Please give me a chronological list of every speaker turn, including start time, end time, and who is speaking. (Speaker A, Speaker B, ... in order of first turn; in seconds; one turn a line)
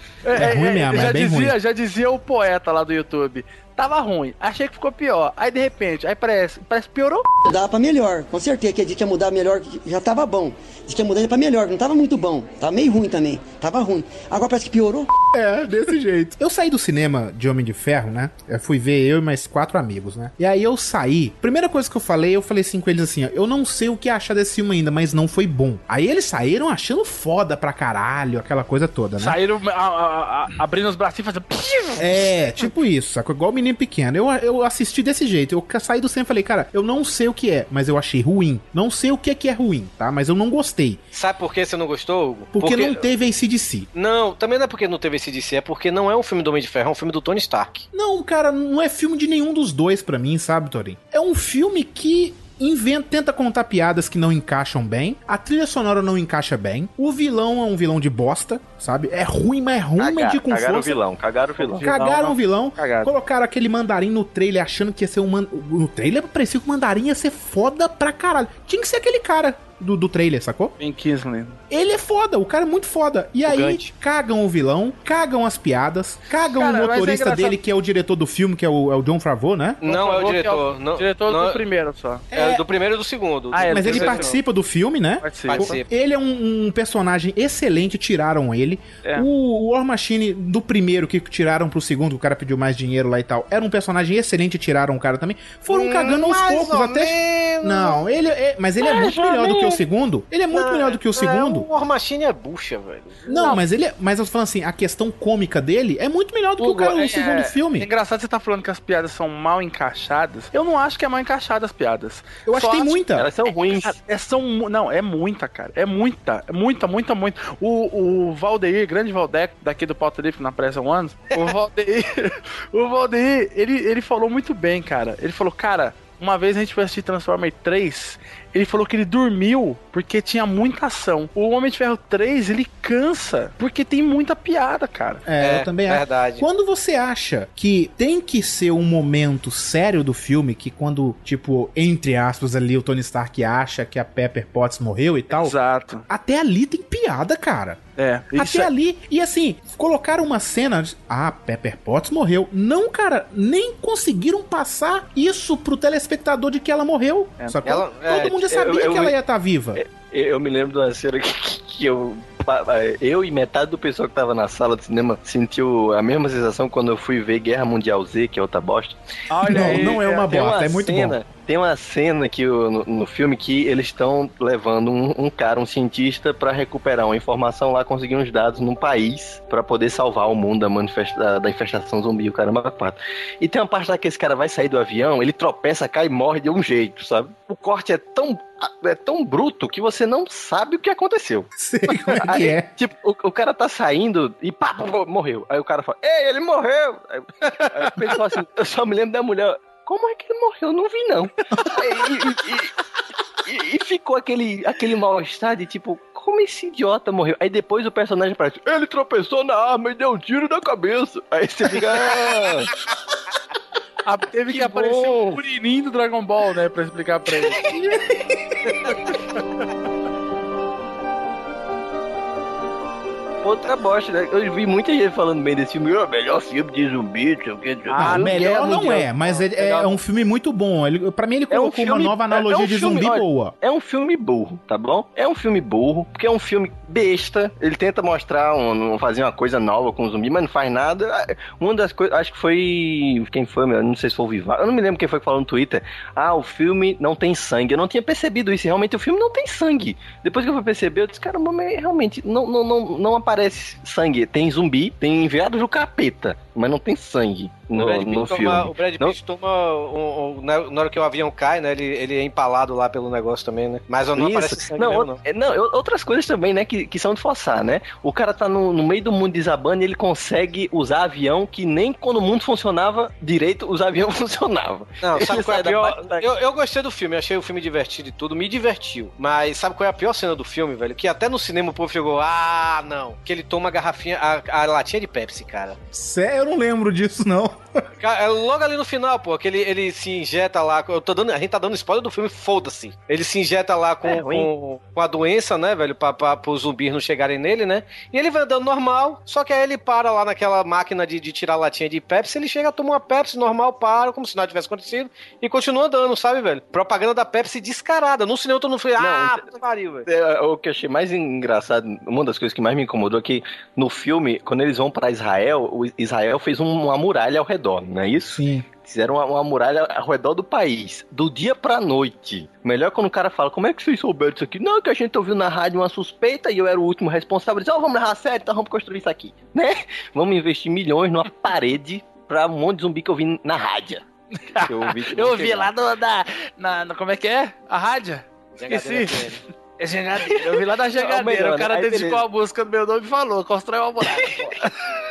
Speaker A: 0.2-7.2
Speaker B: 0.3-1.5
Speaker C: 7.5-15.1
Speaker B: 15.3-29.4
Speaker A: 29.2-32.3
Speaker B: 32.0-41.0
Speaker D: 41.1-43.1
Speaker B: 42.5-43.9
Speaker D: 43.9-47.8
Speaker B: 47.9-61.0
Speaker E: 60.0-61.9
Speaker A: 61.6-63.1
Speaker B: 61.8-70.7
Speaker A: 70.8-71.6
Speaker B: 71.7-79.8
Speaker D: 73.4-73.9
Speaker A: 76.5-77.6
Speaker D: 79.8-81.6
Speaker A: 79.8-82.2
Speaker B: 82.3-82.6
Speaker D: 82.3-84.4
Speaker A: 83.5-84.4
Speaker B: 83.7-101.7
Speaker A: 85.2-85.8
Speaker D: 85.5-85.9
Speaker D: 95.7-98.0
Speaker E: 99.0-99.7
Speaker D: 100.5-103.5
Speaker B: 103.2-107.9
Speaker A: 103.3-103.6
Speaker A: 106.6-113.0
Speaker B: 112.5-113.2
Speaker E: 113.2-114.0
Speaker A: 113.7-135.2
Speaker B: 135.2-145.6
Speaker D: 135.4-136.4
Speaker A: 145.3-146.0
Speaker B: 146.1-147.8
Speaker A: 148.0-148.7
Speaker B: 148.3-159.8
Speaker D: 157.6-158.3
Speaker E: 158.1-159.1
Speaker E: 159.8-191.5
Speaker A: 169.3-170.2
Speaker B: 169.4-171.2
Speaker B: 191.6-192.7
Speaker E: 192.3-202.7
Speaker E: 203.4-212.7
Speaker A: 214.0-217.7
Speaker E: 223.4-228.4
Speaker A: 227.9-229.9
Speaker B: 228.0-233.5
Speaker E: 231.5-259.1
Speaker D: 257.7-265.2
Speaker E: 264.1-276.2
Speaker D: 275.0-285.8
Speaker B: 285.9-287.6
Speaker D: 288.0-310.1
Speaker E: 294.0-294.5
Speaker E: 309.0-309.4
Speaker E: 310.1-334.0
Speaker B: 318.4-318.6
Speaker A: 334.5-344.7
Speaker E: 334.6-335.7
Speaker D: 338.6-339.4
Speaker E: 340.2-342.2
Speaker E: 344.2-344.6